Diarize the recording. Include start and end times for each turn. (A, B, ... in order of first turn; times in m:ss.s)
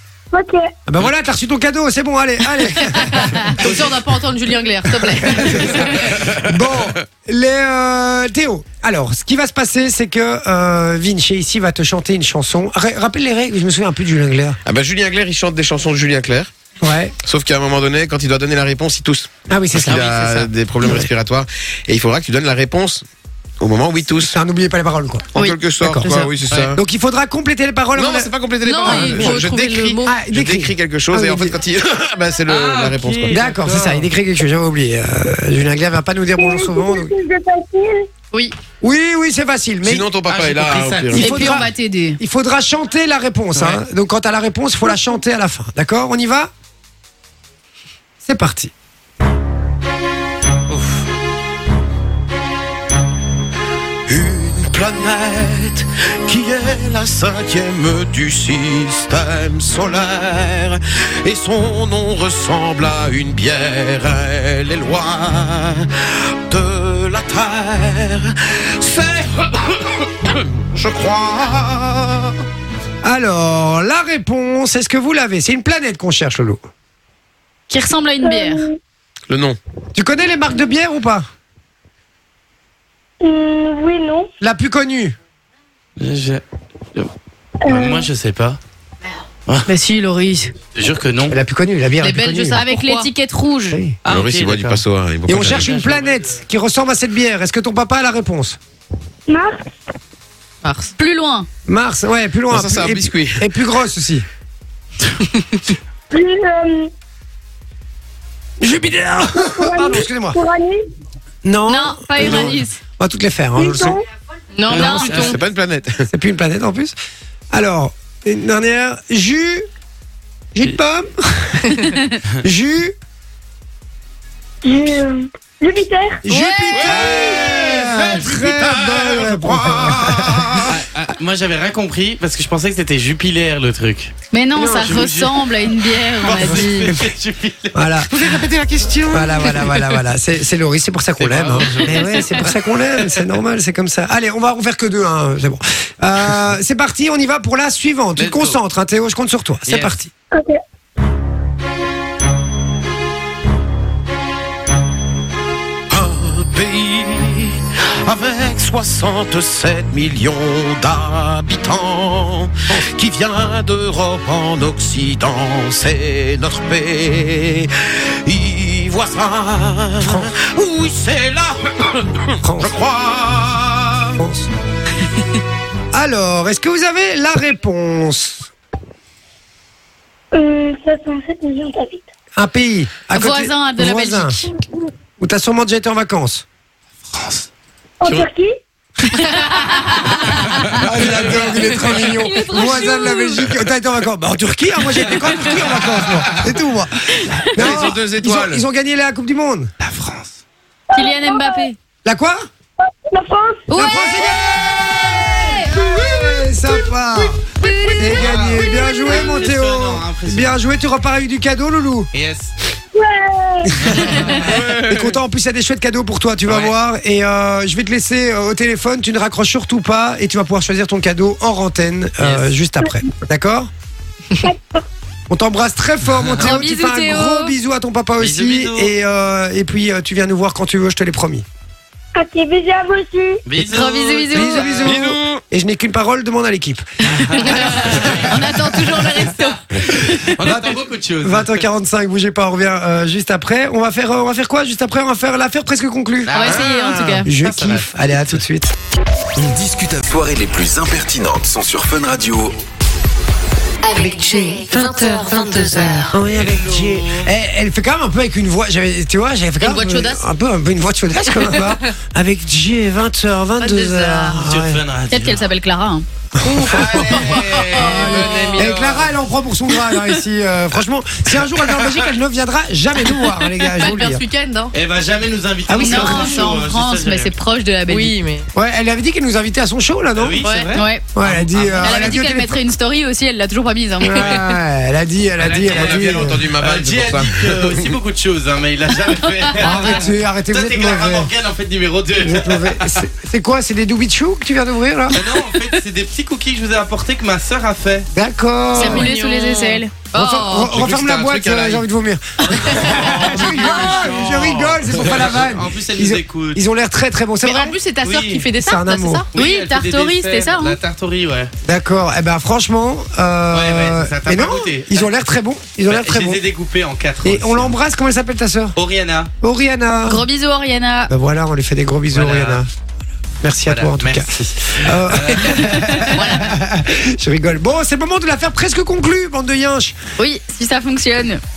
0:00.3-0:00.7 A
0:00.9-0:03.8 B
0:03.2-0:06.1 C
0:05.0-0:14.6 B
0:06.3-0:06.8 D
0:14.6-0:16.5 D
0:16.8-0:17.1 B
0:17.2-0:23.0 D
0:19.5-0:20.0 B
0:19.9-0:20.4 E
0:20.8-0:21.1 B
0:23.6-0:24.4 D
0:24.2-0:28.3 B
0:25.3-0:26.8 D
0:27.9-0:33.4 D
0:28.6-0:30.2 C
0:28.8-0:29.4 B
0:30.0-0:31.6 B
0:32.5-0:34.0 E
0:33.3-0:37.1 B
0:36.4-0:38.1 A
0:38.8-0:40.0 B
0:39.8-0:41.4 D
0:40.3-0:41.3 E
0:41.1-0:46.5 B
0:41.2-0:42.2 F
0:48.2-0:48.7 B
0:50.7-0:51.0 E
0:54.1-1:12.4 D
1:13.0-1:16.6 B
1:17.7-1:18.6 F
1:18.2-1:18.8 A
1:19.3-1:19.6 D
1:19.9-1:21.3 B
1:23.2-1:24.3 A
1:24.4-1:25.1 B
1:26.0-1:26.4 E
1:27.6-1:28.1 A
1:27.6-1:28.6 E
1:29.6-1:30.5 F
1:30.8-1:31.4 E
1:31.3-1:32.6 B
1:32.0-1:33.1 C
1:32.1-1:33.8 F
1:33.7-1:34.0 B
1:34.0-1:34.8 E
1:34.1-1:35.7 D
1:35.3-1:38.6 B
1:35.4-1:36.2 E
1:39.3-1:39.7 A
1:40.6-1:40.9 C
1:41.0-1:41.5 F
1:41.7-1:44.2 B
1:42.5-1:43.4 D
1:46.1-1:46.9 A
1:48.6-1:50.4 B
1:49.4-1:50.8 A
1:51.4-1:54.0 B
1:51.7-1:52.8 F
1:53.6-1:54.0 A
1:54.5-1:55.4 C
1:54.7-1:55.3 E
1:54.7-1:55.2 F
1:54.8-1:55.0 B
1:55.0-1:56.1 D
1:56.1-1:56.9 B
1:57.5-1:59.6 B
2:00.5-2:01.6 B
2:02.4-2:02.9 B
2:04.6-2:06.2 A
2:06.2-2:10.6 B
2:06.3-2:07.1 F
2:06.7-2:10.8 D
2:10.7-2:14.1 E
2:14.3-2:16.9 F
2:14.5-2:15.1 B
2:14.7-2:15.4 E
2:16.1-2:17.8 E
2:17.7-2:18.2 B
2:18.1-2:19.5 D
2:19.1-2:30.1 B
2:21.2-2:22.1 E
2:28.2-2:28.6 E
2:29.7-2:29.9 E
2:30.3-2:30.6 A
2:35.9-2:47.7 D
2:48.2-2:54.2 D
2:50.0-2:50.3 B
2:52.4-2:52.7 B
2:54.2-2:54.5 B
2:55.9-2:58.5 B
3:00.3-3:02.0 A
3:02.4-3:04.4 B
3:03.1-3:04.4 F
3:05.2-3:06.4 B
3:07.1-3:07.4 E
3:08.0-3:08.6 A
3:09.4-3:10.7 F
3:10.7-3:19.7 B
3:12.1-3:13.3 F
3:12.3-3:13.2 C
3:17.5-3:18.6 D
3:19.8-3:20.4 E
3:20.9-3:21.6 A
3:20.9-3:21.8 F
3:22.0-3:22.5 B
3:22.8-3:23.9 A
3:23.7-3:24.4 F
3:23.7-3:27.4 B
3:25.0-3:26.8 A
3:27.6-3:29.2 A
3:27.9-3:32.1 B
3:28.1-3:30.6 E
3:32.1-3:32.5 E
3:32.9-3:34.2 A
3:33.7-3:43.7 B
3:34.0-3:34.5 E
3:34.4-3:35.2 D
3:36.5-3:36.7 E
3:42.2-3:42.5 E
3:44.4-3:44.8 A
3:45.3-3:51.4 B
3:46.4-3:47.5 F
3:48.2-3:48.9 E
3:52.1-3:53.4 A
3:53.4-3:55.0 E
3:53.6-3:54.9 F
3:54.3-3:58.5 B
3:54.8-3:55.4 D
3:57.2-3:58.5 E
3:57.4-3:59.5 F
3:58.5-3:59.5 C
4:00.2-4:01.6 E
4:00.4-4:06.4 B
4:06.3-4:06.8 E
4:06.3-4:07.3 F
4:06.6-4:07.1 D
4:07.2-4:08.7 B
4:07.3-4:07.9 E
4:09.4-4:12.5 G
4:13.8-4:16.2 H
4:16.0-4:24.8 B
4:16.2-4:17.3 E
4:19.6-4:20.0 F
4:21.3-4:21.8 C
4:23.6-4:24.5 C
4:24.4-4:25.4 E
4:25.1-4:26.0 F
4:26.4-4:34.2 B
4:26.6-4:29.1 E
4:26.8-4:28.8 C
4:33.6-4:34.7 C
4:34.7-4:37.3 E
4:35.7-4:36.5 B
4:35.8-4:38.1 F
4:37.9-4:38.5 C
4:38.5-4:40.4 B
4:40.2-4:42.0 E
4:40.4-4:40.8 C
4:40.7-4:41.0 F
4:41.1-4:42.6 B
4:41.8-4:44.4 F
4:44.0-4:46.4 B
4:45.4-4:53.0 E
4:45.6-4:47.9 D
4:49.6-4:51.3 B
4:52.2-4:55.3 B
4:55.1-4:58.1 E
4:58.1-4:59.1 B
4:58.7-5:00.7 C
4:58.7-4:59.9 F
5:00.1-5:07.8 B
5:00.7-5:01.8 D
5:03.1-5:06.6 E
5:07.4-5:09.3 C
5:08.0-5:08.5 E
5:08.5-5:09.2 B
5:09.3-5:11.5 E
5:09.3-5:10.8 F
5:11.6-5:16.4 B
5:13.5-5:15.1 E
5:15.9-5:17.7 E
5:17.2-5:18.8 B
5:18.8-5:19.3 E
5:19.4-5:20.2 B
5:20.0-5:21.1 F
5:21.1-5:22.7 B
5:22.1-5:22.6 E
5:23.4-5:30.0 B
5:23.7-5:26.2 E
5:26.2-5:26.4 C
5:30.2-5:31.4 F